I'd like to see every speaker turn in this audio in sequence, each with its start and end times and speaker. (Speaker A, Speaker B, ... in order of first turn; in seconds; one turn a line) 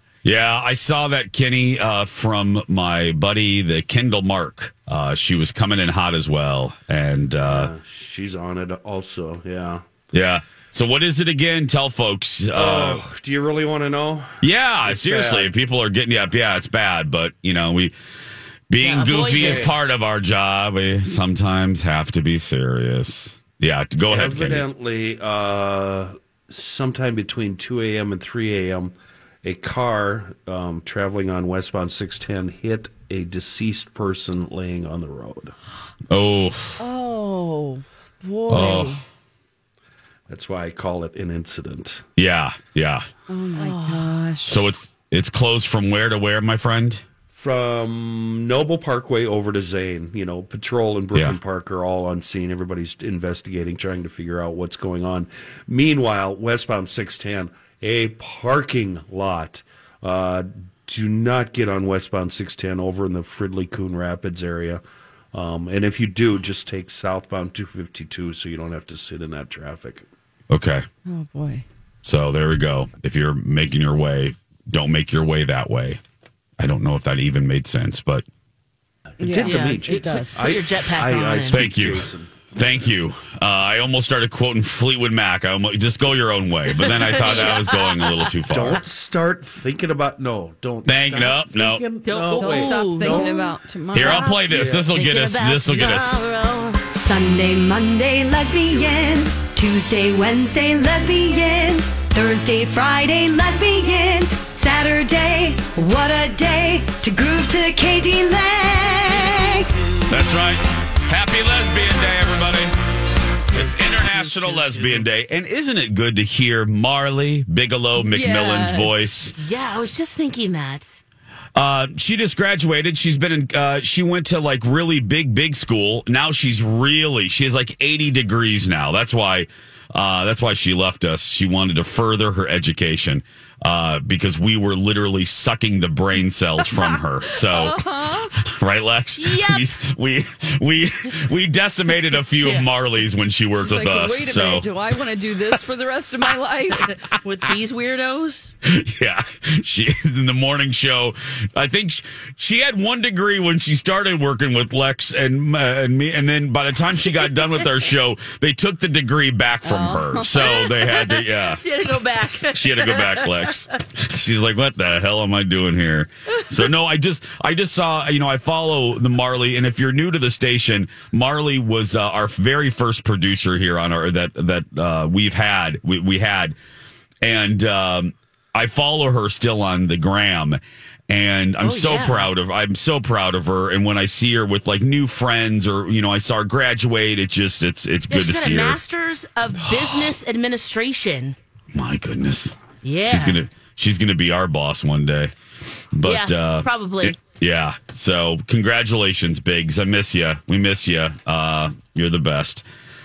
Speaker A: 0.2-7.7
Speaker B: 7.5-9.9
Speaker A: 10.1-13.0
Speaker B: 12.5-15.5
Speaker A: 14.4-17.9
Speaker A: 18.7-24.6
Speaker C: 18.8-19.8
Speaker B: 19.3-19.8
Speaker B: 24.1-35.5
Speaker A: 36.1-36.8
Speaker D: 36.8-39.0
Speaker A: 38.5-39.0
Speaker B: 40.3-42.0
Speaker A: 42.2-43.1
Speaker D: 43.3-44.6
Speaker C: 43.6-44.2
Speaker A: 44.5-47.0
Speaker B: 47.3-64.8
Speaker B: 65.3-70.0
Speaker A: 70.5-70.8
Speaker D: 71.0-71.6
Speaker A: 72.0-76.0
Speaker A: 76.6-78.2
Speaker D: 79.2-80.5
Speaker B: 79.2-82.5
Speaker C: 79.4-81.6
Speaker A: 81.5-88.8
Speaker C: 86.8-88.3
Speaker B: 88.5-93.5
Speaker A: 90.8-91.8
Speaker C: 92.0-93.3
Speaker D: 92.3-94.3
Speaker A: 93.9-96.2
Speaker C: 94.0-94.3
Speaker B: 94.5-94.9
Speaker C: 94.9-96.8
Speaker E: 96.9-109.7
Speaker A: 110.1-112.7
Speaker A: 113.5-119.3
Speaker C: 114.0-115.0
Speaker D: 118.0-119.1
Speaker C: 119.3-121.0
Speaker A: 121.5-144.7
Speaker D: 136.8-138.3
Speaker C: 139.2-139.8
Speaker C: 142.4-142.7
Speaker D: 143.6-146.9
Speaker C: 146.9-148.5
Speaker A: 148.6-161.6
Speaker D: 159.6-160.4
Speaker C: 160.4-163.6
Speaker A: 162.4-176.6
Speaker A: 177.2-188.8
Speaker C: 181.6-182.3
Speaker C: 188.1-191.3
Speaker A: 189.5-190.2
Speaker A: 191.7-195.3
Speaker C: 192.8-193.4
Speaker A: 195.9-202.6
Speaker C: 196.0-197.2